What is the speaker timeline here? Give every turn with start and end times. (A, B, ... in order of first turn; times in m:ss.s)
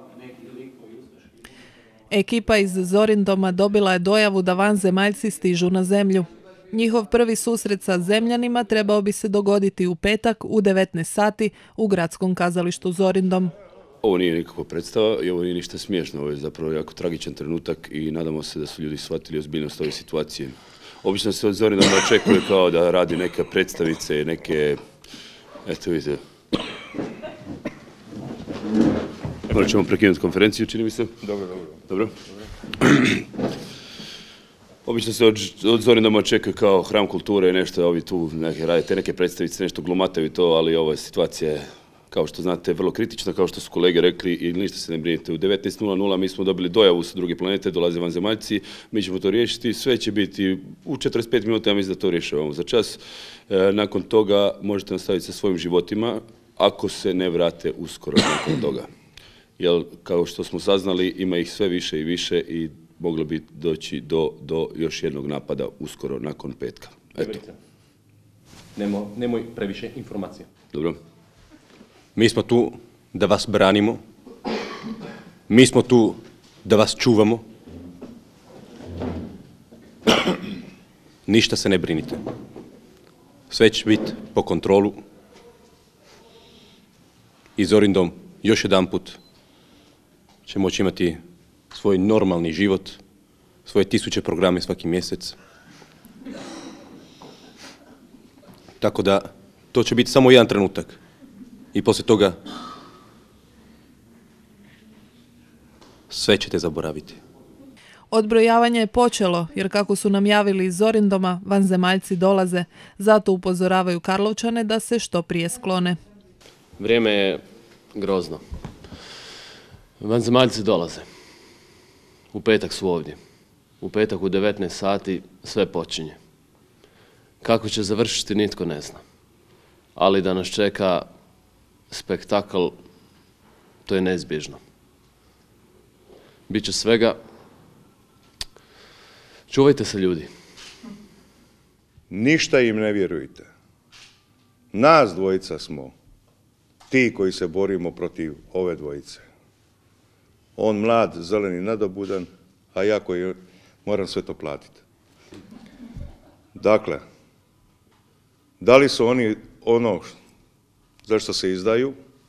0:02.1-0:13.5 A
0:14.0-0:24.8 B
0:25.6-0:26.2 B
0:29.5-0:31.1 B
0:31.2-0:31.8 C
0:32.8-0:33.2 B
0:34.8-0:58.9 B
0:59.6-1:07.4 B
1:07.2-1:07.5 D
1:08.8-1:10.5 D
1:12.2-1:14.0 D
1:15.5-1:17.4 D
1:21.3-1:22.2 D
1:23.5-1:25.0 D
1:27.6-1:29.2 D
1:30.5-1:31.2 D
1:31.7-1:33.0 D
1:33.7-1:35.4 D
1:38.8-1:41.0 D
1:41.7-1:42.4 D
1:46.1-1:47.2 D
1:48.1-1:56.0 A
1:56.8-1:58.4 E
2:00.0-2:01.1 E
2:02.3-2:03.2 E
2:03.8-2:06.2 E
2:07.4-2:09.0 E
2:10.0-2:11.1 E
2:11.9-2:12.8 E
2:13.9-2:14.6 E
2:16.5-2:17.2 E
2:19.5-2:20.3 E
2:22.1-2:23.5 C
2:24.7-2:25.9 C
2:26.9-2:29.2 C
2:30.6-2:34.8 C
2:36.6-2:37.0 C
2:38.6-2:40.2 C
2:41.1-2:41.9 C